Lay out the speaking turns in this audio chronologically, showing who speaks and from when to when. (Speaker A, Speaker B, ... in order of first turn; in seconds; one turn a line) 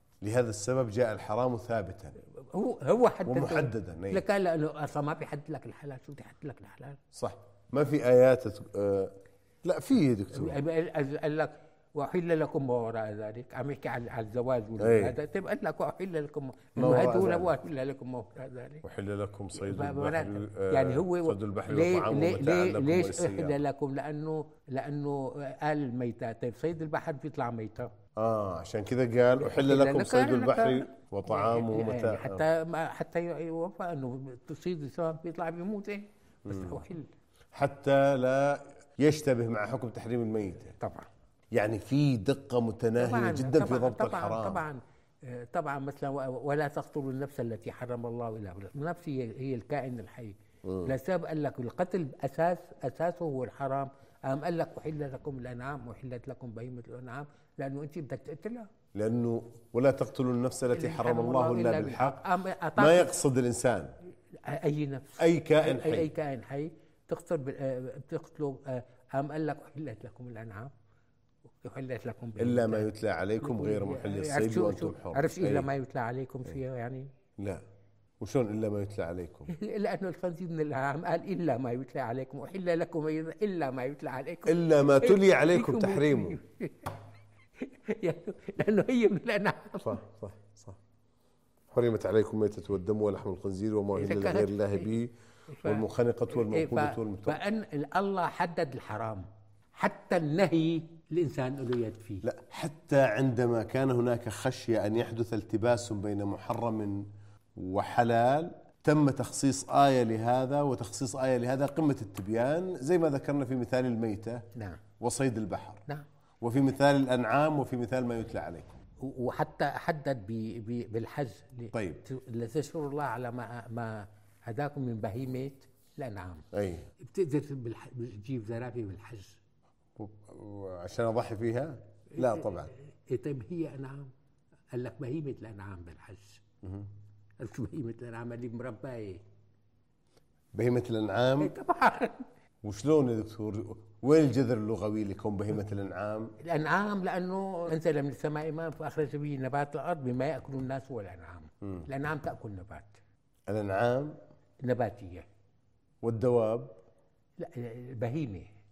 Speaker A: 0.2-2.2
Speaker B: 2.4-7.0
Speaker A: 3.3-4.2
Speaker A: 7.1-10.6
Speaker B: 10.3-18.9
Speaker A: 14.8-15.1
Speaker A: 16.8-17.5
Speaker A: 18.8-23.6
Speaker B: 19.5-27.9
Speaker A: 28.2-32.4
Speaker B: 29.4-37.1
Speaker A: 36.5-36.8
Speaker A: 37.5-40.8
Speaker B: 40.8-41.1
Speaker A: 41.5-44.6
Speaker B: 43.0-58.7
Speaker A: 50.6-50.9
Speaker A: 58.9-62.2
Speaker B: 60.7-63.1
Speaker A: 62.8-63.9
Speaker B: 64.4-70.7
Speaker A: 65.2-66.1
Speaker B: 71.6-72.9
Speaker A: 72.4-75.7
Speaker B: 73.4-77.1
Speaker A: 77.4-77.6
Speaker A: 78.2-79.5
Speaker B: 79.5-86.9
Speaker A: 84.5-86.4
Speaker B: 87.6-90.0
Speaker A: 89.8-90.8
Speaker A: 91.7-95.1
Speaker B: 93.9-94.9
Speaker B: 95.5-102.3
Speaker A: 95.6-97.4
Speaker A: 102.2-114.5
Speaker B: 114.5-114.8
Speaker A: 115.0-115.8
Speaker A: 116.4-118.8
Speaker B: 119.0-126.5
Speaker A: 121.7-122.0
Speaker A: 126.5-126.9
Speaker B: 127.0-129.4
Speaker A: 130.0-132.7
Speaker B: 132.1-134.1
Speaker B: 134.7-136.4
Speaker A: 136.6-136.9
Speaker B: 137.4-139.2
Speaker A: 140.5-141.5
Speaker B: 141.4-142.2
Speaker A: 142.6-146.3
Speaker B: 146.4-153.0
Speaker A: 153.5-154.2
Speaker B: 154.6-155.3
Speaker A: 156.0-156.8
Speaker B: 157.4-158.5